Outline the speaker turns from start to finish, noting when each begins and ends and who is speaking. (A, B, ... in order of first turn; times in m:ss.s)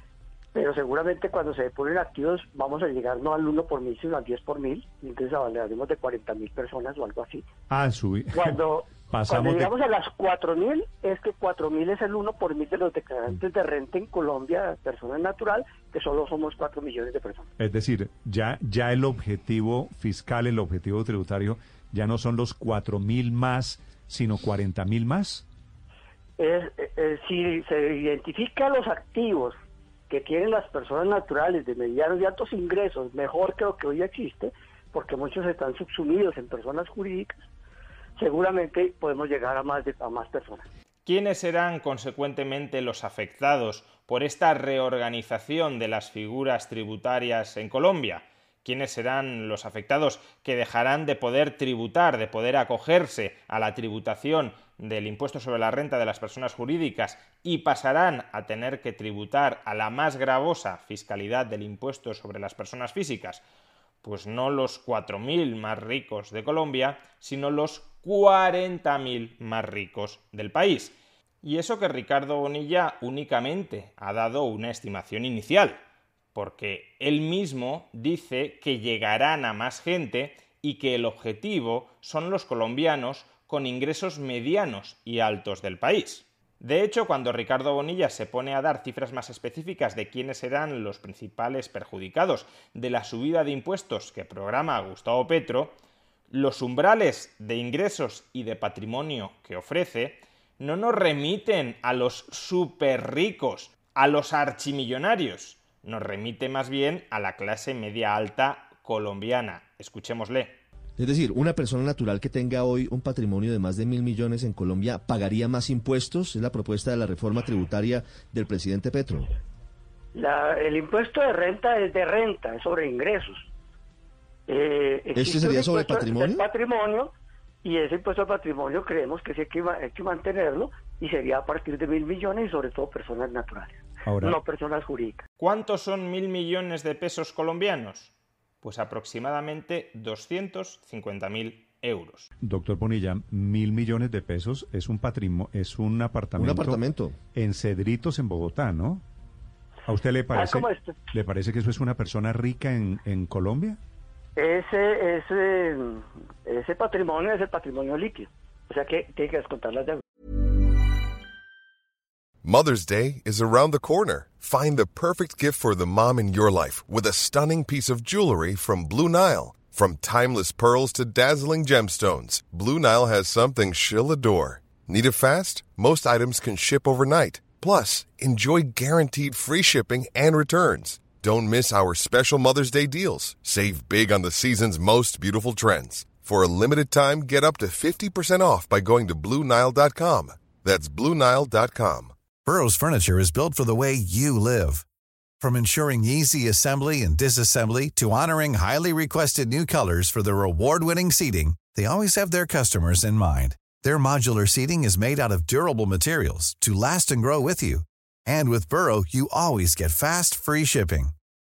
0:00.5-0:07.5 A
0:07.7-0:09.7 B
0:08.3-0:17.5 A
0:17.6-0:25.5 B
0:26.4-0:29.6 A
0:30.1-0:37.4 A
0:38.2-0:40.7 A
0:41.1-1:03.4 C
1:04.0-1:15.8 C
1:16.4-1:35.8 C
1:36.3-1:50.6 C
1:51.0-1:59.3 D
2:00.1-2:03.5 A
2:04.5-2:07.1 A
2:05.2-2:06.5 D
2:07.6-2:15.2 A
2:14.1-2:14.4 B
2:15.4-2:22.3 C
2:22.4-2:26.8 B
2:26.4-2:27.2 D
2:27.3-2:29.0 B
2:29.9-2:33.8 B
2:30.3-2:30.9 A
2:34.4-2:40.0 A
2:42.4-3:12.2 E
3:12.4-3:14.8 F
3:15.4-3:31.1 F